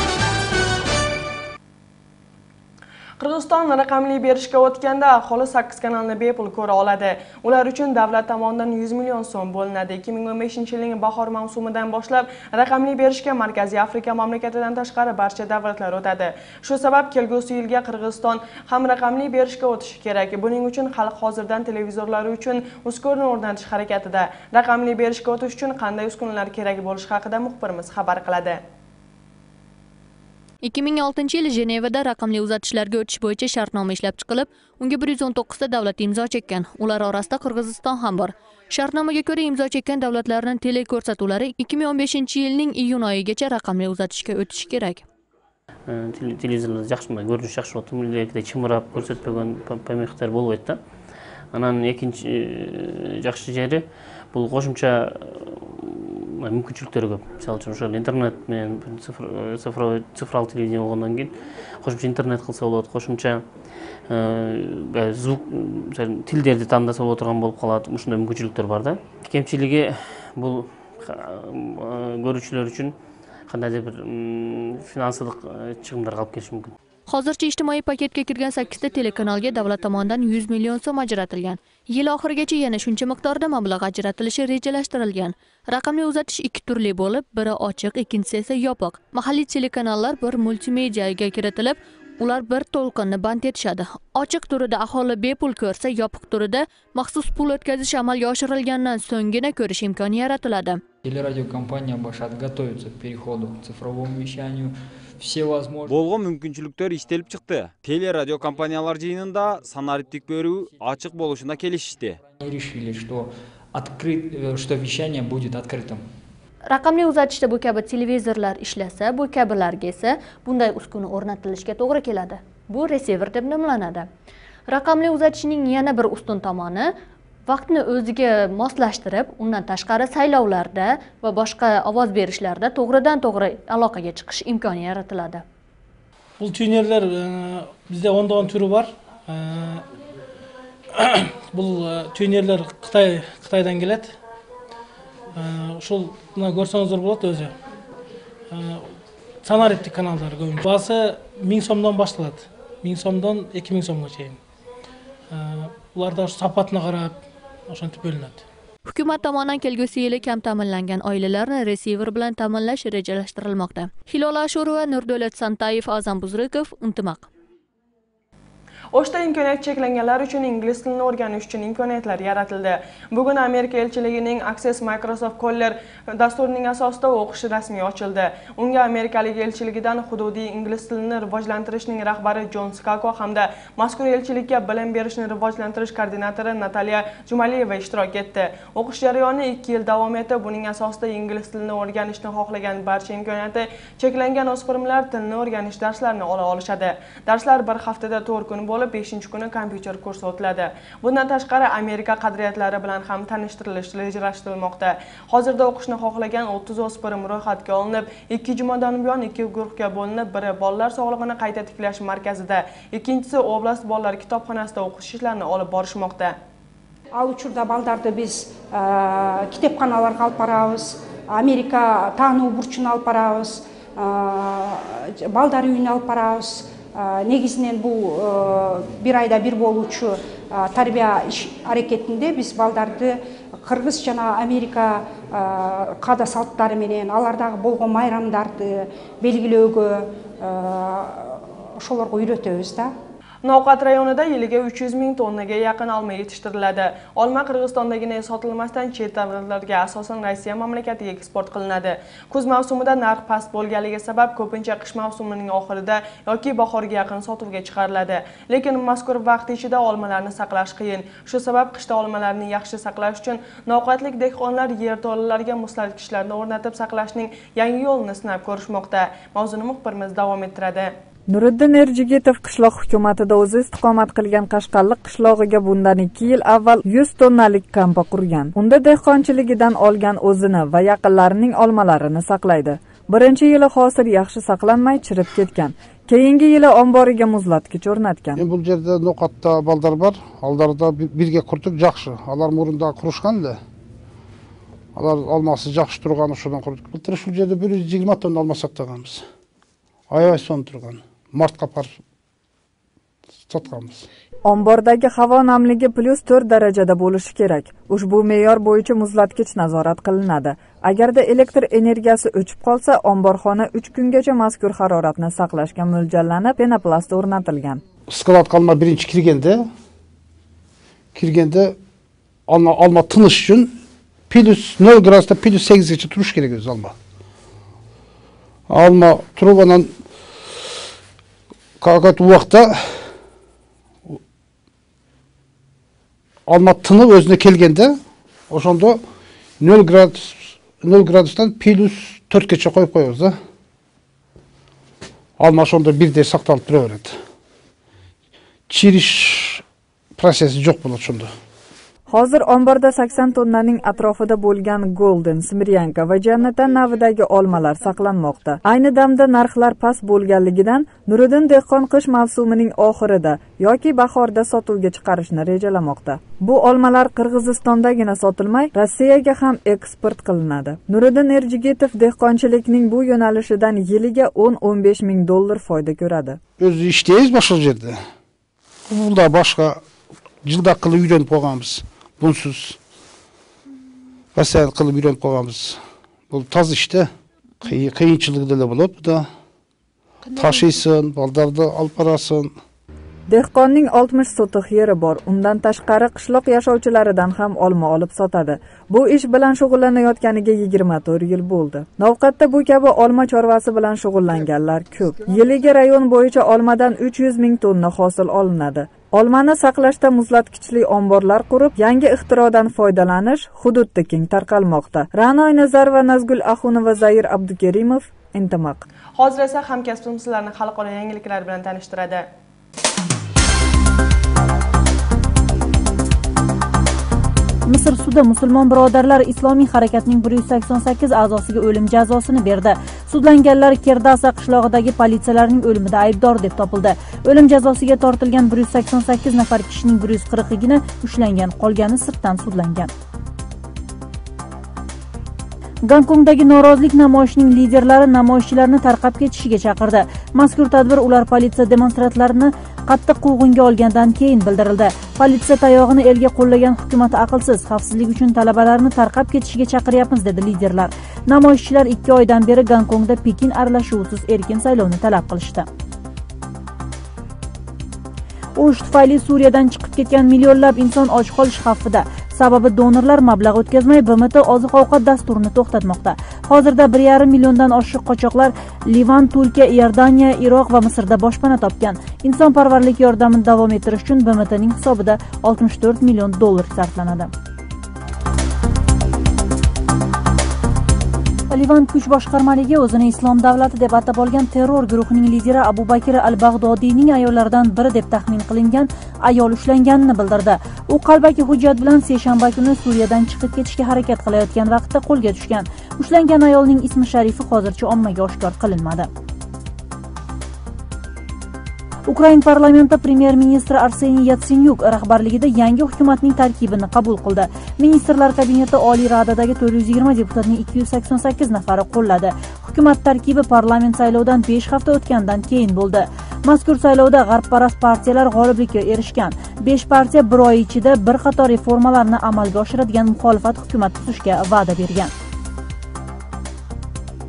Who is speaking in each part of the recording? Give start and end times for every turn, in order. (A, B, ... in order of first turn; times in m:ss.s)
0:03.2-0:28.6 A
0:30.6-0:45.0 B
0:45.9-0:50.8 C
0:51.5-1:03.4 C
1:04.1-1:13.0 C
1:13.5-1:16.8 C
1:17.1-1:40.8 B
1:41.0-1:46.0 D
1:45.8-1:52.2 E
1:52.4-1:56.0 D
1:56.7-2:04.1 B
2:04.7-2:06.9 B
2:07.5-2:15.4 B
2:16.4-2:19.9 F
2:20.9-2:24.2 F
2:25.4-2:27.6 F
2:28.5-2:28.9 F
2:29.4-2:34.4 F
2:35.3-2:38.5 F
2:38.9-2:47.3 B
2:48.9-3:36.4 A
3:37.1-4:02.9 G
4:03.4-4:30.9 A
4:31.3-4:48.4 H
4:48.4-4:53.6 I
4:55.0-4:59.2 I
5:00.1-5:02.0 I
5:03.4-5:04.1 I
5:04.4-5:17.8 H
5:18.1-5:19.7 I
5:21.2-5:21.8 I
5:22.5-5:23.8 I
5:24.3-5:27.0 I
5:28.7-5:29.9 I
5:31.8-5:33.1 I
5:36.5-5:38.0 I
5:38.5-5:39.0 I
5:39.6-5:43.4 I
5:45.4-5:47.2 I
5:48.7-5:49.6 I
5:50.2-5:51.3 I
5:52.1-6:16.4 H
6:16.6-6:18.0 I
6:18.9-6:19.8 I
6:20.4-6:22.8 I
6:24.4-6:25.8 I
6:26.3-6:27.1 I
6:27.6-6:29.3 I
6:30.3-6:32.5 I
6:33.3-6:58.8 H
6:59.2-7:02.2 A
7:07.7-7:22.9 J
7:25.9-7:45.7 J
7:48.6-8:07.3 J
8:11.5-8:29.1 J
8:32.1-8:55.1 J